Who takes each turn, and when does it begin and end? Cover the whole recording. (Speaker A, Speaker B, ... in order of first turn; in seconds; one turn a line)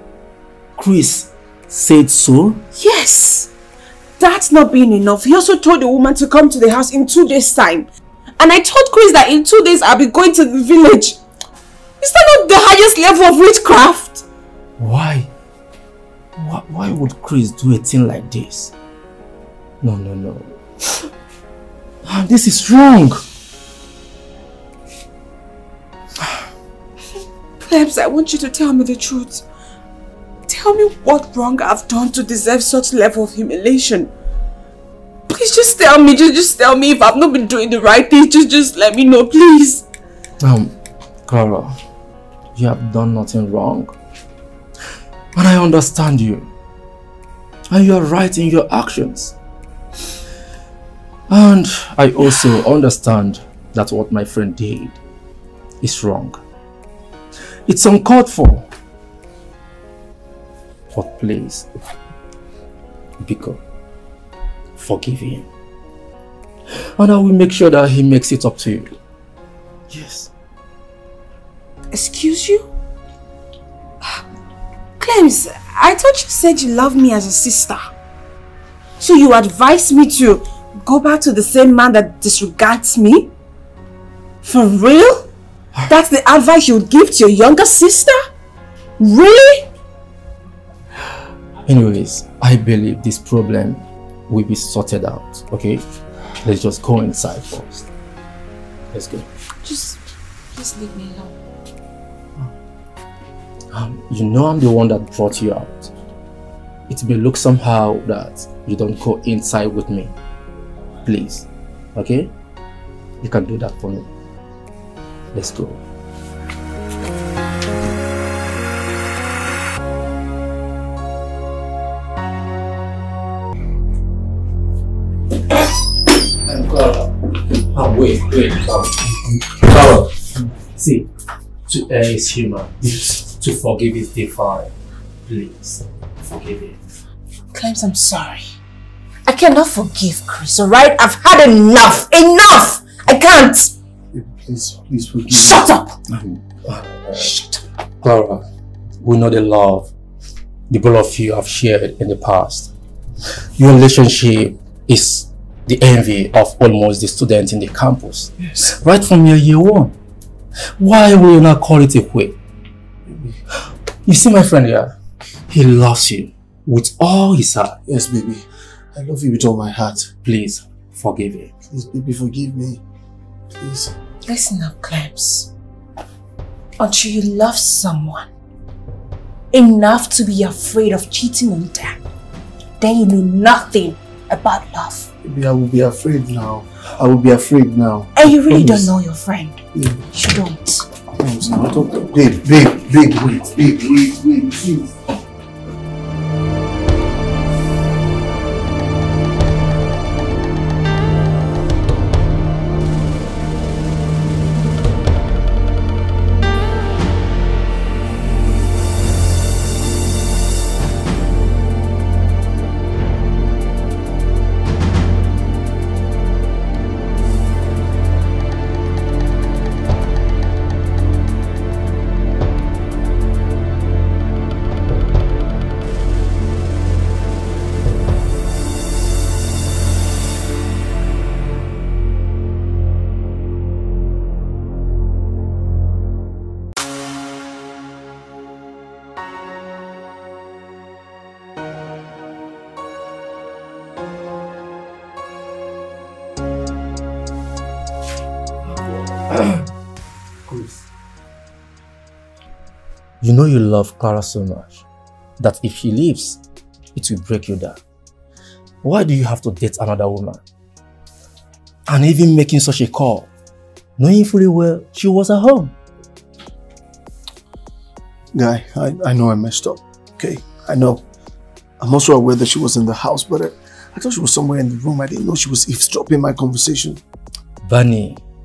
Speaker A: 0.8-2.6
Speaker B: 2.8-3.5
Speaker B: 4.2-11.2
Speaker B: 12.0-14.2
Speaker A: 14.8-15.3
Speaker A: 16.4-18.7
Speaker A: 19.8-20.6
Speaker A: 22.0-23.2
Speaker B: 27.6-29.4
Speaker B: 30.5-34.1
Speaker B: 35.3-39.9
Speaker A: 40.4-40.7
Speaker A: 41.3-41.8
Speaker A: 42.5-43.9
Speaker A: 45.3-46.5
Speaker A: 47.7-49.4
Speaker A: 51.3-55.0
Speaker A: 55.8-56.4
Speaker A: 57.7-58.7
Speaker A: 60.9-61.7
Speaker A: 63.2-63.6
Speaker A: 64.8-65.5
Speaker A: 67.0-68.9
Speaker A: 69.9-70.3
Speaker B: 71.9-72.7
Speaker B: 75.0-77.9
Speaker B: 79.0-83.3
Speaker B: 84.4-85.3
Speaker B: 85.9-88.2
Speaker B: 89.0-89.7
Speaker A: 91.7-95.8
Speaker A: 96.4-97.9
Speaker A: 98.9-99.3
Speaker B: 99.6-100.0
Speaker B: 100.5-101.3
Speaker A: 103.7-105.9
Speaker A: 106.9-110.1
Speaker A: 111.0-112.3
Speaker A: 113.2-114.1
Speaker A: 115.3-115.8
Speaker A: 126.4-131.1
Speaker A: 131.7-134.7
Speaker A: 135.3-136.8
Speaker B: 137.5-138.6
Speaker B: 139.3-143.7
Speaker C: 144.1-145.7
Speaker B: 145.3-145.9
Speaker A: 146.1-147.3
Speaker B: 147.1-147.7
Speaker A: 148.0-148.5
Speaker A: 149.0-149.9
Speaker A: 150.7-152.7
Speaker A: 153.6-160.0
Speaker A: 160.8-162.4
Speaker C: 163.1-163.4
Speaker A: 164.1-165.0
Speaker A: 165.5-167.8
Speaker C: 167.9-170.1
Speaker A: 170.2-171.5
Speaker C: 171.7-172.8
Speaker C: 173.5-174.0
Speaker B: 174.3-175.5
Speaker B: 176.8-178.3
Speaker B: 179.5-182.0
Speaker B: 182.8-185.1
Speaker C: 185.2-188.9
Speaker B: 188.2-190.8
Speaker C: 189.7-190.1
Speaker C: 191.2-194.9
Speaker A: 250.5-250.8
Speaker A: 253.2-254.8
Speaker A: 255.4-256.4
Speaker A: 256.9-257.8
Speaker A: 258.8-260.4
Speaker A: 261.9-263.3
Speaker A: 264.0-265.7
Speaker C: 268.3-271.0
Speaker C: 271.8-277.0
Speaker A: 277.6-278.2